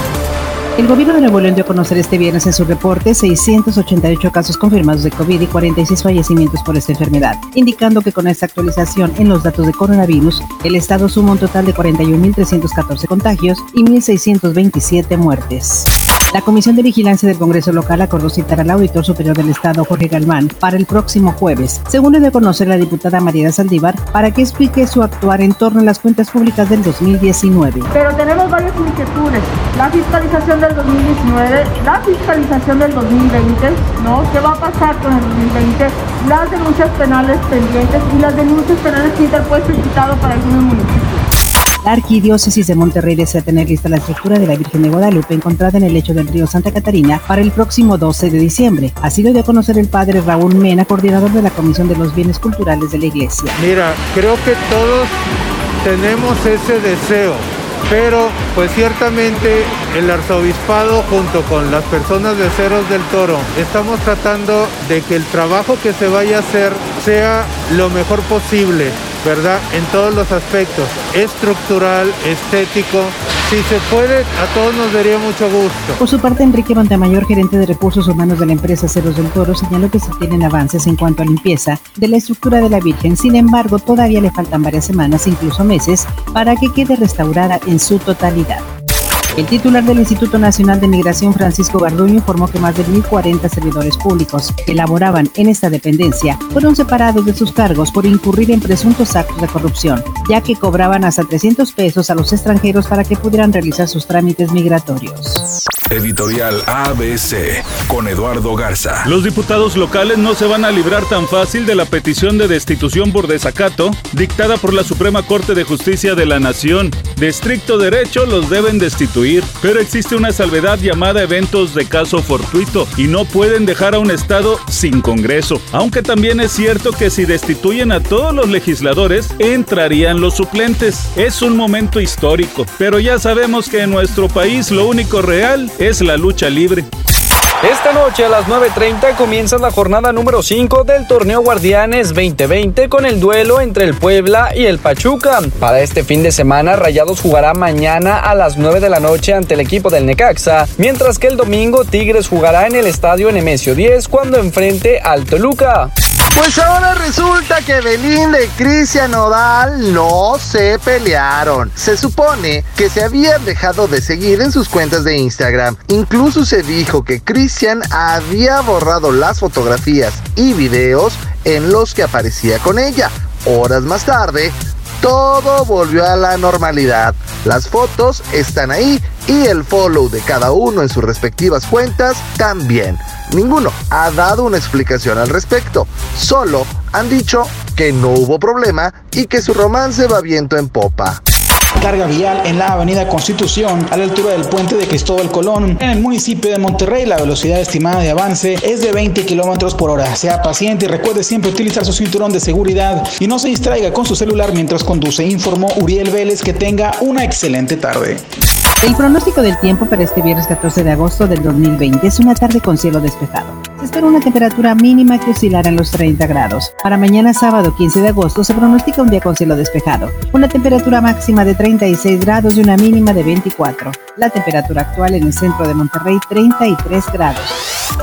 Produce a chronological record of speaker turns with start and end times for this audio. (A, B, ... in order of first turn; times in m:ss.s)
0:00.8-0:27.9 A
0:27.9-0:41.2 B
0:41.8-0:53.6 A
0:53.6-0:55.2 C
0:55.8-1:16.0 C
1:16.0-1:28.7 A
1:29.4-1:45.4 A
1:45.9-1:49.1 D
1:49.0-2:16.9 E
2:17.6-2:35.9 F
2:36.3-3:11.2 G
3:11.8-3:28.2 H
3:28.8-3:47.6 A